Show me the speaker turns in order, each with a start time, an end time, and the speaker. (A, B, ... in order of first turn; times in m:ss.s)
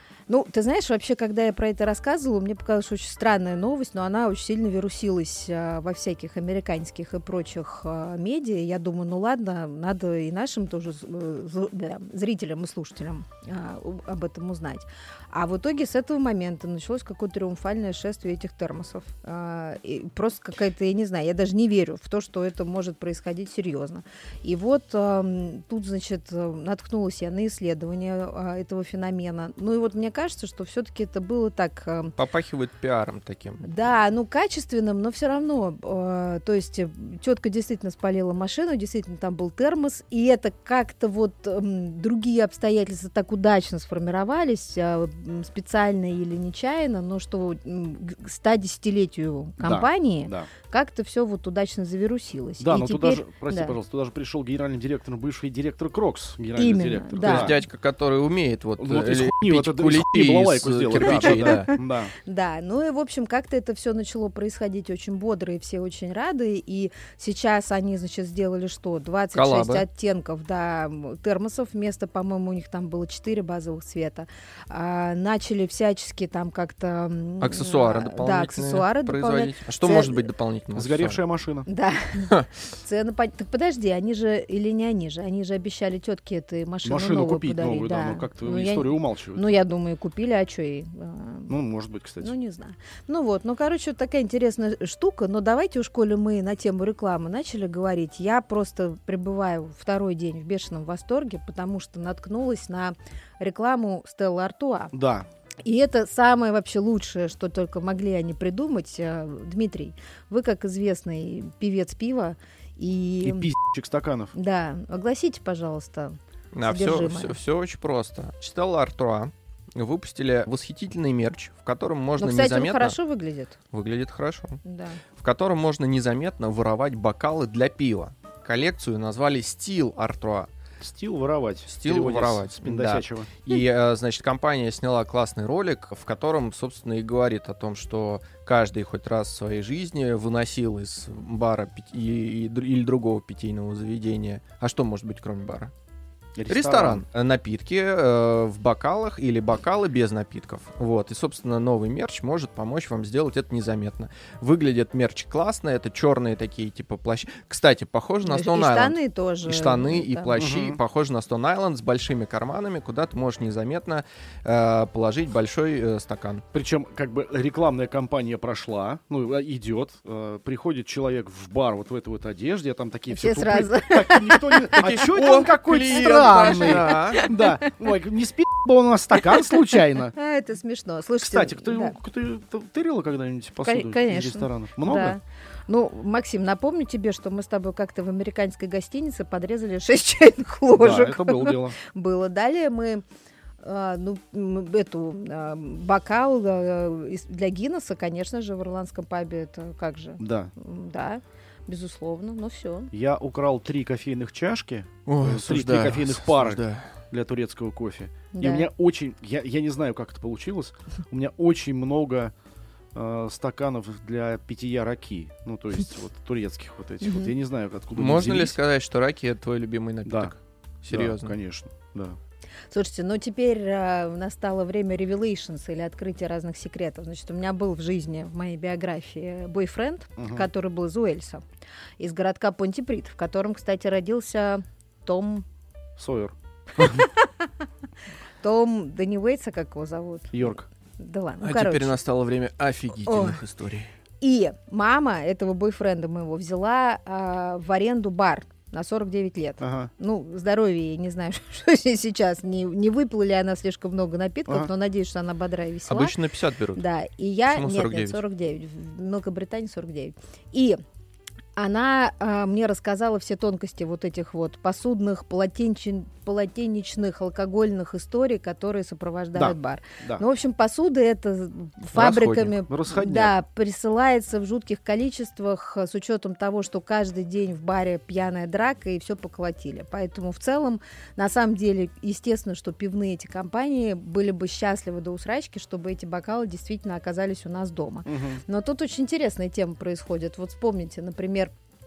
0:00.3-0:32.1 A
0:32.2-0:33.6 B
0:33.6-0:53.8 A
0:49.6-0:50.5 C
0:52.6-0:57.6 C
0:56.6-0:57.6 A
0:57.2-1:01.7 B
0:58.8-1:02.1 C
1:01.0-1:20.3 A
1:09.4-1:09.8 B
1:17.4-1:21.2 B
1:20.8-1:21.7 C
1:21.7-1:31.5 A
1:26.8-1:29.6 C
1:31.5-1:32.3 C
1:32.2-1:44.9 A
1:44.9-1:45.3 C
1:45.6-1:53.5 A
1:53.2-1:54.3 C
1:54.3-1:57.4 A
1:56.5-2:03.0 B
2:02.2-2:03.6 A
2:03.7-2:04.6 B
2:04.6-2:05.0 A
2:05.2-2:10.5 B
2:10.8-2:13.3 C
2:11.7-2:25.7 B
2:26.4-2:27.0 C
2:26.5-2:46.4 B
2:38.2-2:40.4 A
2:40.4-2:40.8 C
2:46.5-3:00.1 C
2:53.1-2:54.8 A
2:54.8-2:57.3 B
2:56.5-2:57.7 A
3:00.1-3:02.0 A
3:01.2-3:05.2 C
3:03.6-3:13.0 A
3:10.8-3:11.8 C
3:13.6-3:22.9 A
3:20.2-3:20.5 C
3:22.9-3:32.3 C
3:25.1-3:26.9 B
3:28.3-3:28.7 A
3:32.9-3:38.6 C
3:37.0-3:37.3 A
3:38.0-3:41.4 B
3:40.1-3:40.3 C
3:40.9-3:42.2 C
3:42.7-3:51.4 A
3:50.2-3:50.5 C
3:52.0-3:55.4 A
3:56.0-3:56.3 C
3:56.8-3:57.5 A
3:58.4-4:01.9 A
4:00.3-4:00.7 C
4:01.4-4:03.9 B
4:03.1-4:03.4 A
4:04.2-4:16.2 A
4:09.6-4:09.9 C
4:15.9-4:16.8 B
4:16.8-4:20.8 A
4:17.5-4:18.2 B
4:21.6-4:51.5 A
4:29.4-4:30.2 C
4:31.9-4:32.5 B
4:32.7-4:33.3 C
4:48.1-4:48.4 C